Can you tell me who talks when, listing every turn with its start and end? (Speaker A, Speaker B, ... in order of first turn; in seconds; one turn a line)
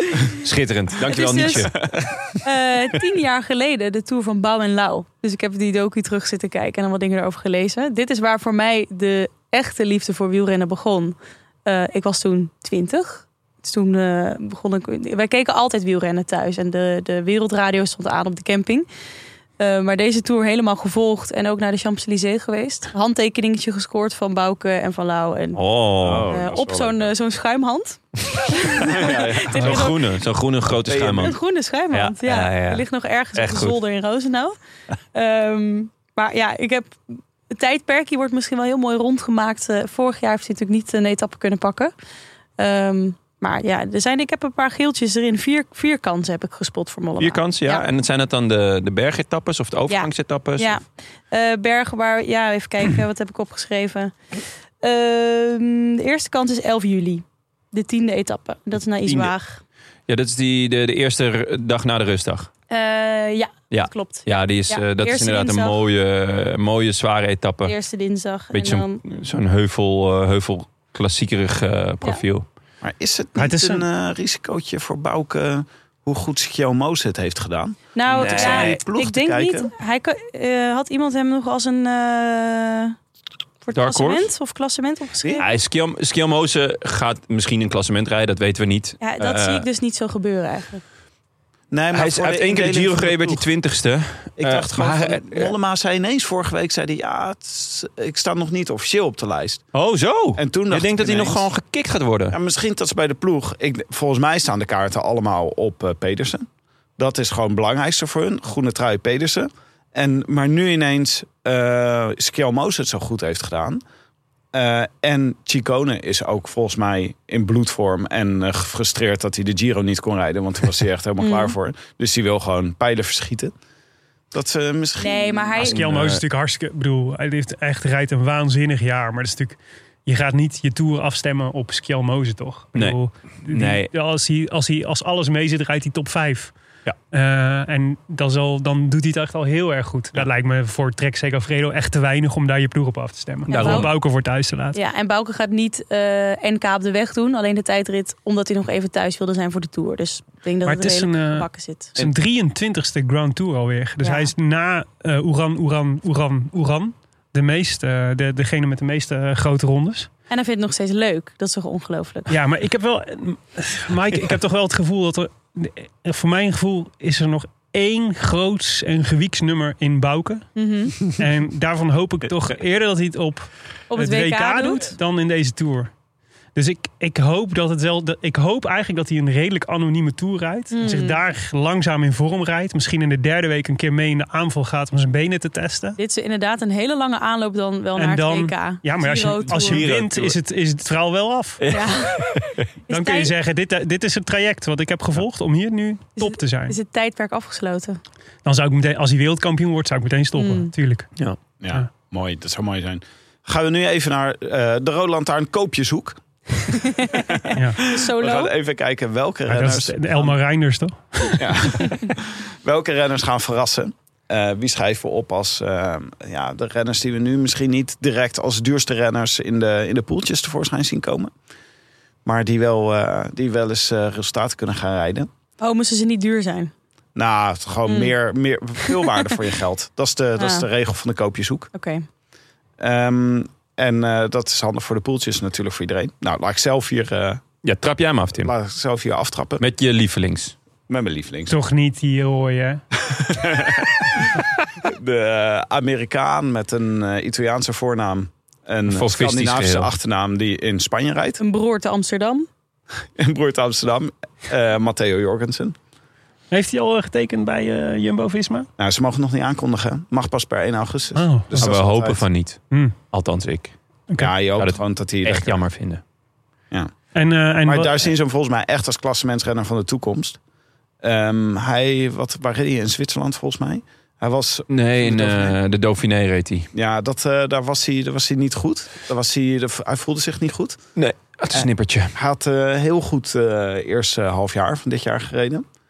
Speaker A: 0.4-2.0
Speaker B: 1.0-1.7
Speaker B: 2.4-18.9
Speaker B: 19.6-25.6
Speaker A: 25.6-26.3
Speaker C: 26.0-27.1
Speaker B: 26.3-28.0
Speaker B: 28.5-30.0
Speaker C: 28.8-29.9
Speaker A: 29.5-31.4
Speaker C: 30.7-31.4
Speaker B: 31.2-34.5
Speaker A: 31.9-33.8
Speaker B: 35.1-41.9
Speaker B: 42.6-47.8
Speaker A: 47.2-50.8
Speaker B: 49.9-54.1
Speaker B: 54.8-59.6
Speaker A: 59.0-59.3
Speaker A: 60.1-62.5
Speaker B: 62.7-65.8
Speaker A: 63.7-67.7
Speaker B: 67.6-69.0
Speaker A: 68.5-72.4
Speaker C: 72.8-79.7
Speaker D: 73.4-73.8
Speaker B: 77.9-83.0
Speaker A: 78.1-78.8
Speaker B: 83.6-85.4
Speaker A: 83.7-84.3
Speaker A: 85.4-89.7
Speaker B: 89.0-90.8
Speaker C: 91.7-93.4
Speaker A: 91.9-95.5
Speaker C: 94.4-99.6
Speaker A: 99.7-102.4
Speaker C: 100.4-101.5
Speaker C: 102.3-106.5
Speaker C: 107.0-113.8
Speaker C: 114.5-123.5
Speaker B: 121.2-121.5
Speaker C: 124.3-125.8
Speaker B: 125.0-125.8
Speaker D: 125.6-136.5
Speaker A: 125.6-126.2
Speaker A: 132.7-133.9
Speaker D: 137.1-144.8
Speaker B: 143.4-144.0
Speaker A: 143.5-143.9
Speaker B: 144.7-151.9
Speaker D: 150.6-160.1
Speaker B: 154.0-154.3
Speaker B: 160.3-162.4
Speaker D: 162.3-170.5
Speaker B: 170.6-171.1
Speaker D: 171.1-175.9
Speaker B: 173.9-174.9
Speaker D: 176.6-186.0
Speaker B: 180.7-181.2
Speaker B: 185.9-189.9
Speaker D: 187.9-191.6
Speaker A: 189.4-190.4
Speaker A: 191.6-192.7
Speaker B: 191.7-192.3
Speaker B: 192.9-193.3
Speaker D: 192.9-196.8
Speaker B: 196.2-198.0
Speaker D: 198.4-201.1
Speaker B: 200.4-200.7
Speaker C: 201.6-206.2
Speaker B: 206.9-208.5
Speaker C: 207.6-210.4
Speaker D: 209.5-211.5
Speaker C: 211.4-221.3
Speaker C: 222.2-225.3
Speaker B: 225.6-226.7
Speaker C: 227.1-231.7
Speaker B: 227.9-228.1
Speaker B: 230.4-230.7
Speaker B: 231.7-232.1
Speaker C: 232.8-237.4
Speaker A: 237.6-238.5
Speaker C: 238.4-239.6
Speaker A: 239.6-240.5
Speaker C: 240.9-241.6
Speaker D: 241.5-242.8
Speaker C: 243.1-251.4
Speaker A: 248.9-249.9
Speaker B: 251.4-252.5
Speaker C: 253.2-255.7
Speaker D: 256.5-258.7
Speaker C: 258.8-262.2
Speaker D: 261.1-261.6
Speaker A: 261.6-262.6
Speaker A: 263.1-263.7
Speaker C: 264.2-265.6
Speaker A: 264.6-266.0
Speaker D: 267.1-268.1
Speaker C: 267.6-270.4
Speaker C: 271.0-275.6
Speaker A: 274.7-276.7
Speaker C: 276.7-280.8
Speaker A: 280.9-282.1
Speaker C: 281.5-285.6